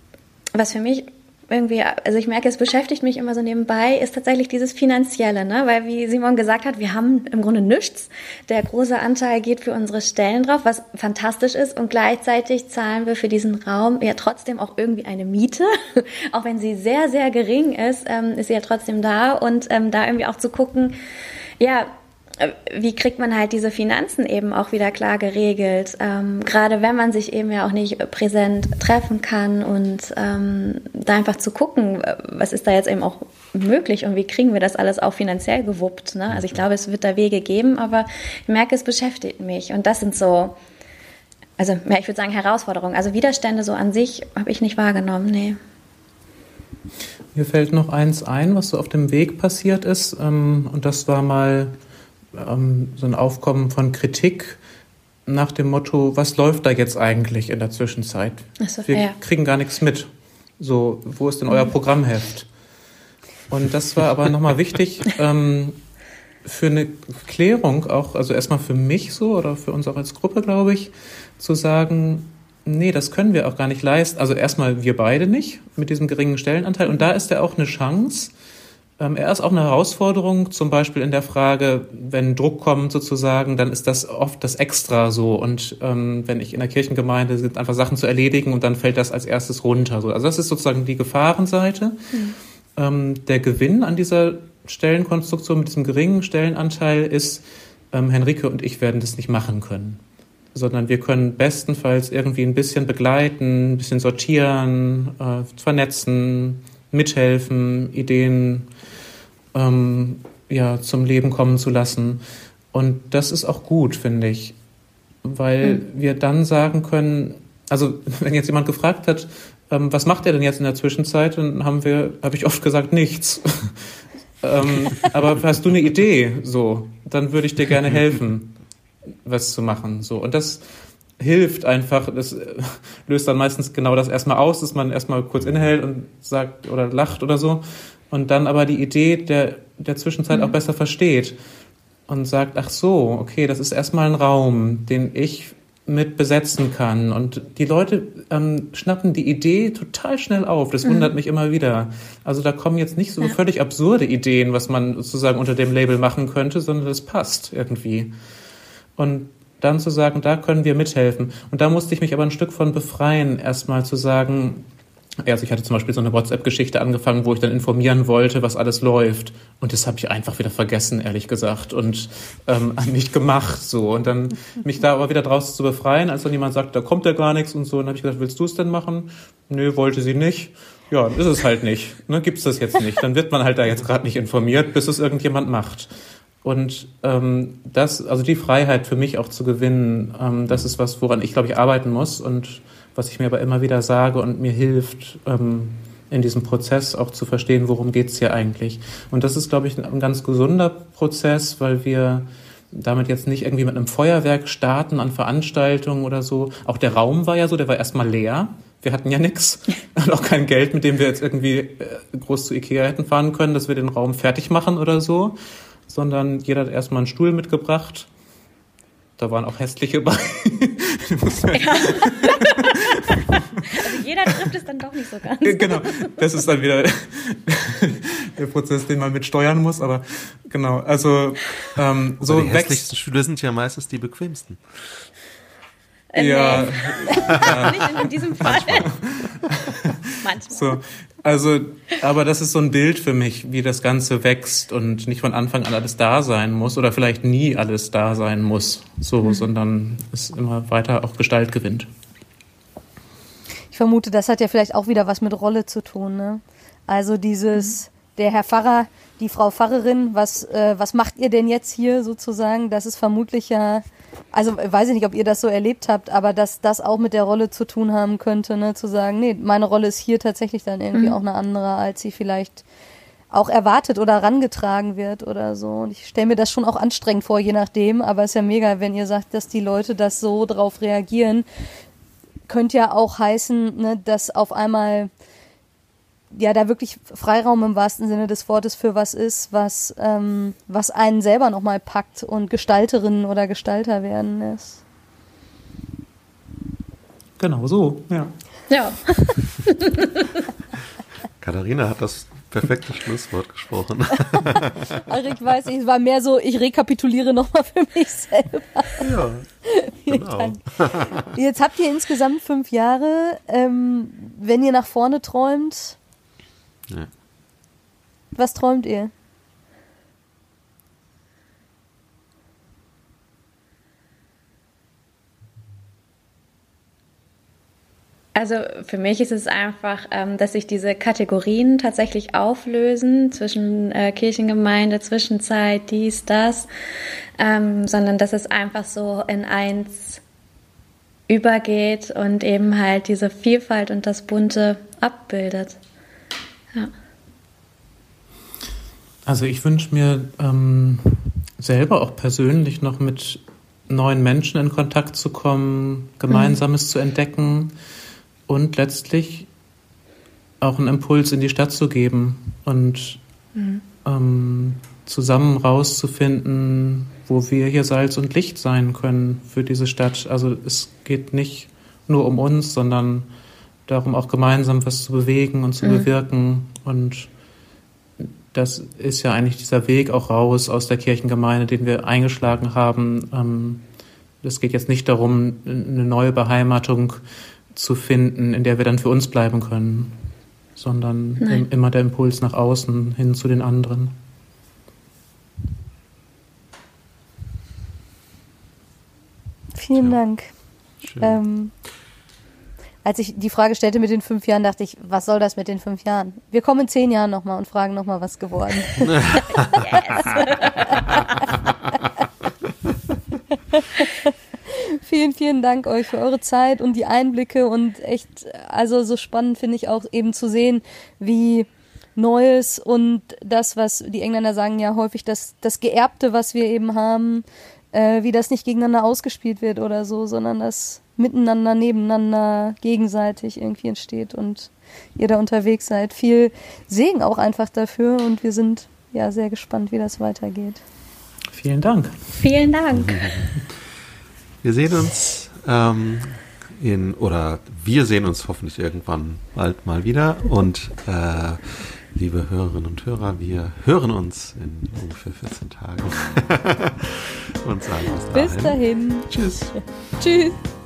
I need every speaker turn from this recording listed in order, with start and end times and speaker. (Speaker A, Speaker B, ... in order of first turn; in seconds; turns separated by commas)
Speaker A: 0.6-21.0, Speaker A: 21.6-40.6, Speaker A: 41.6-45.6, Speaker B: 47.4-51.8, Speaker B: 52.3-54.6, Speaker B: 55.3-62.5, Speaker A: 58.6-59.2, Speaker B: 63.5-65.8, Speaker B: 66.5-78.3, Speaker B: 79.0-92.0, Speaker B: 92.8-100.0, Speaker B: 100.5-108.7, Speaker B: 109.5-112.2, Speaker B: 112.7-114.5, Speaker B: 115.2-123.9, Speaker B: 124.4-128.6, Speaker B: 129.2-130.6, Speaker B: 131.2-141.3, Speaker A: 140.3-140.6, Speaker B: 142.1-158.1, Speaker A: 150.8-151.1, Speaker B: 159.0-164.7, Speaker B: 165.2-185.9, Speaker B: 186.4-215.4, Speaker B: 215.9-218.1, Speaker B: 219.2-223.9, Speaker A: 221.5-226.2, Speaker B: 225.4-232.9, Speaker C: 232.2-234.6, Speaker A: 236.1-238.9, Speaker B: 236.2-240.0, Speaker C: 237.1-237.7, Speaker A: 240.2-240.8, Speaker B: 240.5-251.9, Speaker D: 253.7-272.6, Speaker D: 273.3-281.5, Speaker D: 282.5-285.1, Speaker D: 286.3-294.8, Speaker B: 297.4-298.4, Speaker A: 298.7-300.4, Speaker C: 301.4-305.0, Speaker D: 304.4-309.1, Speaker C: 309.0-309.5, Speaker D: 309.6-310.6, Speaker C: 310.1-311.3, Speaker D: 311.2-316.0, Speaker D: 318.4-319.1, Speaker A: 328.4-336.7, Speaker A: 337.4-340.2, Speaker A: 341.3-345.8, Speaker B: 349.3-357.7, Speaker A: 356.3-356.6, Speaker B: 358.5-359.5, Speaker B: 360.6-363.2, Speaker B: 364.0-373.3, Speaker B: 373.9-377.3, Speaker A: 375.8-376.1, Speaker B: 378.2-383.8, Speaker B: 384.4-387.2, Speaker B: 387.7-390.2, Speaker B: 390.8-394.1, Speaker A: 391.4-391.7, Speaker D: 399.8-400.5, Speaker C: 401.0-401.4, Speaker D: 401.2-401.7, Speaker D: 403.0-409.2, Speaker A: 409.7-411.2, Speaker D: 413.7-440.8, Speaker B: 441.5-442.2, Speaker A: 442.4-443.3, Speaker C: 443.0-443.4, Speaker C: 444.6-459.7, Speaker D: 458.3-460.6